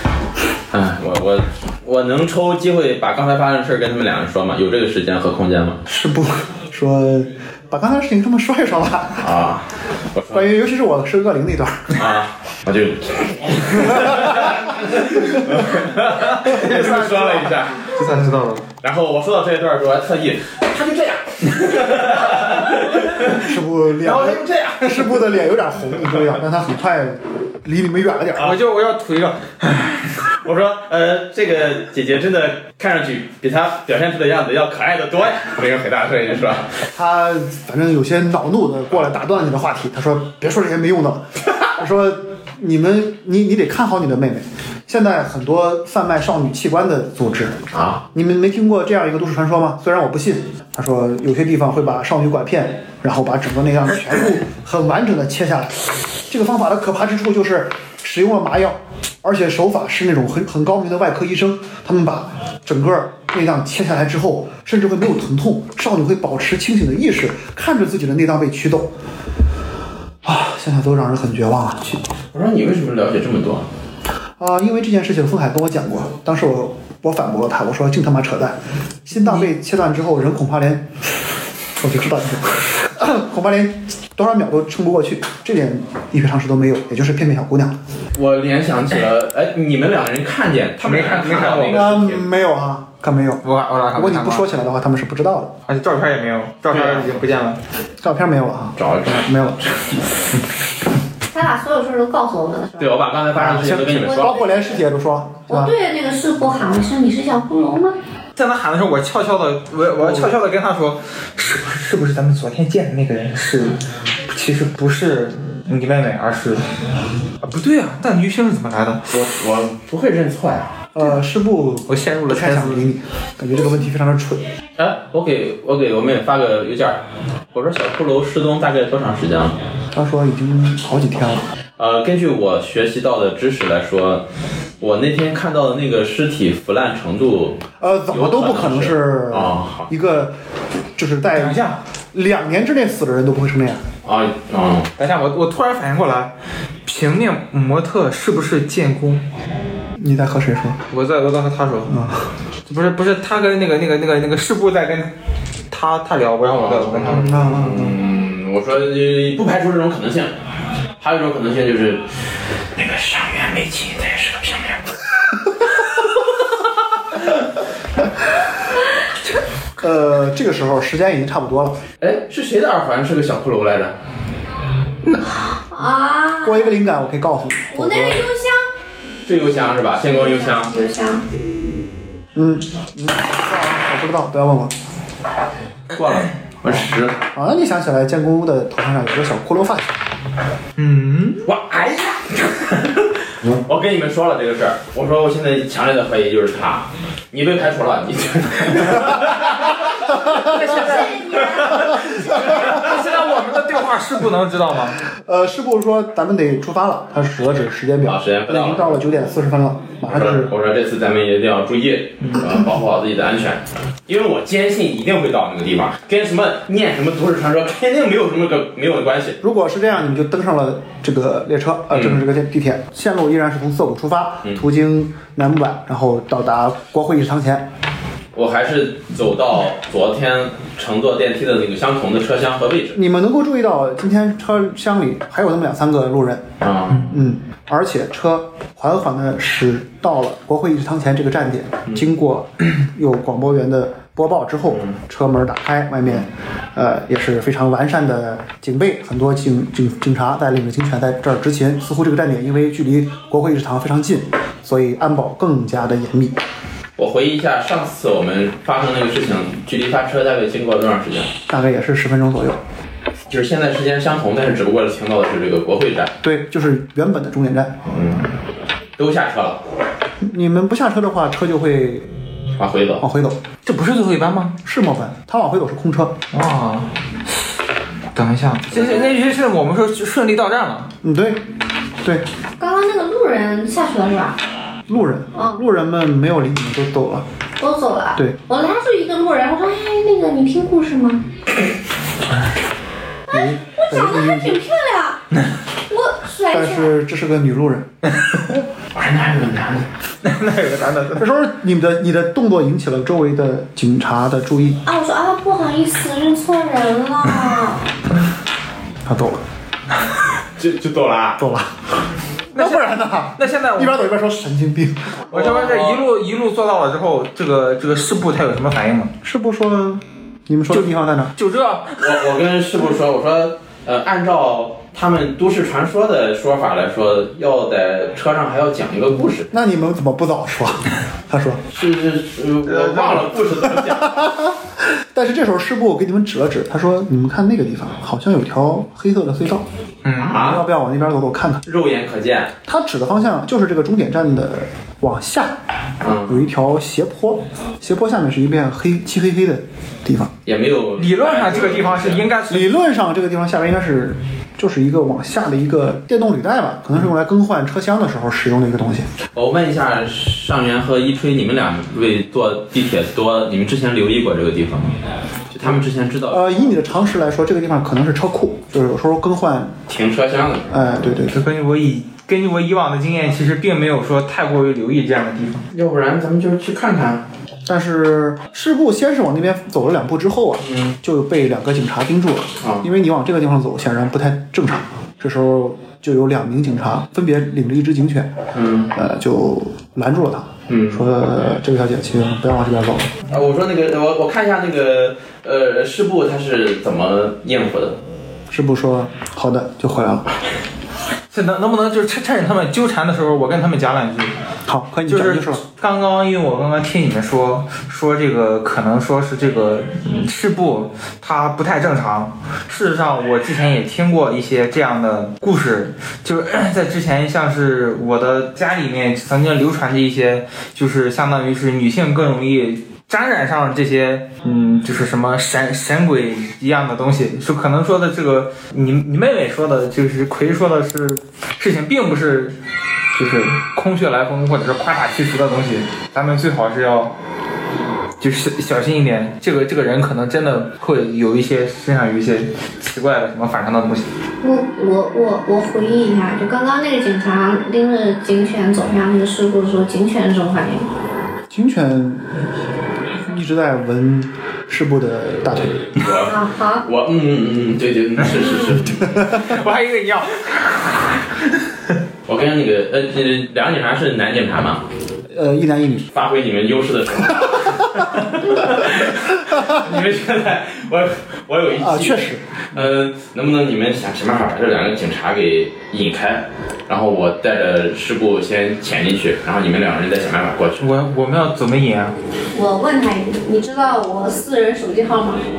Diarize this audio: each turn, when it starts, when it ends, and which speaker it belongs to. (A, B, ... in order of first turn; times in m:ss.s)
0:00.7-0:05.8 A
0:05.8-0:09.3 B
0:09.2-0:10.5 A
0:10.3-0:12.0 B
0:11.9-0:18.0 A
0:13.9-0:18.4 B
0:16.4-0:17.4 C
0:17.9-0:18.6 C
0:18.8-0:25.3 A
0:23.2-0:28.6 B
0:28.4-0:30.1 C
0:30.3-0:36.8 A
0:36.9-1:08.9 B
0:47.7-0:48.0 A
1:10.2-1:12.0 B
1:12.3-1:13.7 A
1:14.4-1:21.1 B
1:21.8-1:27.8 B
1:28.1-1:32.3 A
1:30.8-1:31.8 C
1:31.7-1:35.6 B
1:33.4-1:34.6 C
1:35.7-1:37.6 C
1:36.7-1:37.1 A
1:38.0-1:40.0 B
1:38.8-1:39.3 A
1:41.3-1:43.0 D
1:42.8-1:44.4 A
1:43.3-1:45.7 B
1:44.1-1:44.5 D
1:45.5-1:48.0 D
1:48.4-1:56.7 C
1:50.0-1:50.3 B
1:57.4-1:59.1 C
1:59.1-2:00.8 A
2:00.9-2:04.5 B
2:01.9-2:02.9 C
2:04.8-2:09.6 A
2:09.9-2:11.4 B
2:11.8-2:14.2 A
2:14.8-2:19.9 A
2:17.8-2:20.4 B
2:21.0-2:23.8 B
2:21.4-2:21.8 C
2:24.0-2:24.9 A
2:25.0-2:26.3 C
2:26.8-2:29.2 C
2:30.0-2:30.8 B
2:30.9-2:31.9 C
2:31.9-2:32.3 B
2:32.6-2:35.1 C
2:35.7-2:37.4 C
2:36.5-2:40.3 A
2:37.1-2:38.0 B
2:41.0-2:42.1 A
2:42.8-2:45.0 A
2:49.8-2:51.8 B
2:52.0-2:54.0 A
2:55.2-2:56.8 D
2:56.4-2:58.3 B
2:57.7-2:58.7 D
2:59.2-3:00.7 A
3:00.1-3:01.2 D
3:02.3-3:04.7 B
3:05.9-3:07.2 A
3:06.6-3:10.0 B
3:10.8-3:11.4 C
3:11.4-3:22.8 A
3:20.1-3:20.8 B
3:20.4-3:21.8 D
3:20.8-3:21.3 C
3:21.9-3:22.7 B
3:22.2-3:25.0 C
3:25.1-3:30.5 B
3:28.0-3:29.0 A
3:30.0-3:39.4 A
3:39.4-3:47.7 B
3:41.9-3:42.2 A
3:48.3-3:53.0 A
3:52.9-3:56.5 B
3:56.6-3:57.2 A
3:57.1-4:16.4 B
4:17.0-4:21.3 A
4:21.5-4:22.6 B
4:23.3-4:26.1 A
4:26.2-4:27.8 B
4:27.8-4:28.3 A
4:29.0-4:29.6 A
4:30.2-4:32.1 B
4:32.6-4:33.0 A
4:33.0-4:33.4 B
4:33.6-4:34.6 C
4:34.6-4:36.2 B
4:36.3-4:36.9 C
4:38.1-4:40.9 C
4:41.0-4:41.4 B
4:42.6-4:44.4 D
4:44.9-4:47.3 B
4:45.3-4:45.6 D
4:47.6-4:51.2 D
4:53.3-4:55.2 D
4:53.3-4:54.6 B
4:55.9-4:56.9 D
4:56.5-4:57.9 B
4:58.9-4:59.9 A
5:00.2-5:01.3 C
5:01.2-5:04.8 B
5:04.8-5:07.9 D
5:09.0-5:09.4 B
5:10.6-5:11.4 A
5:11.4-5:11.8 B
5:12.5-5:14.0 C
5:12.5-5:15.2 B
5:15.3-5:16.1 A
5:15.3-5:19.1 C
5:19.2-5:21.3 B
5:20.7-5:22.2 C
5:22.0-5:29.5 A
5:29.5-5:31.6 B
5:31.7-5:34.3 A
5:32.6-5:33.3 C
5:33.9-5:39.6 B
5:40.0-5:40.4 C
5:40.2-5:40.6 A
5:40.3-5:41.6 B
5:41.6-5:42.5 A
5:42.6-5:45.6 B
5:46.0-5:46.4 A
5:46.3-5:50.3 B
5:50.4-5:52.3 A
5:51.0-5:52.7 C
5:52.5-5:59.1 B
5:59.3-6:05.0 A
6:05.5-6:06.7 A
6:06.3-6:09.8 B
6:09.9-6:11.2 A
6:10.7-6:11.4 B
6:11.3-6:15.6 C
6:15.7-6:17.3 A
6:17.6-6:28.3 B
6:20.6-6:20.9 A
6:22.6-6:22.9 A
6:28.5-6:28.9 A
6:28.9-6:33.1 B
6:30.7-6:31.0 A
6:33.3-6:38.0 A
6:38.5-6:40.3 B
6:41.3-6:44.3 C
6:44.7-6:45.6 B
6:45.1-7:12.6 C
7:13.1-7:17.1 C
7:18.2-7:24.1 C
7:24.4-7:30.9 D
7:31.5-7:32.3 B
7:33.2-7:36.0 B
7:35.8-7:39.2 A
7:36.1-7:36.8 D
7:39.2-7:41.1 C
7:42.3-7:44.8 A
7:45.3-7:46.1 B
7:46.1-8:00.9 A
7:51.8-7:52.4 B
8:00.8-8:02.1 C
8:02.5-8:05.4 D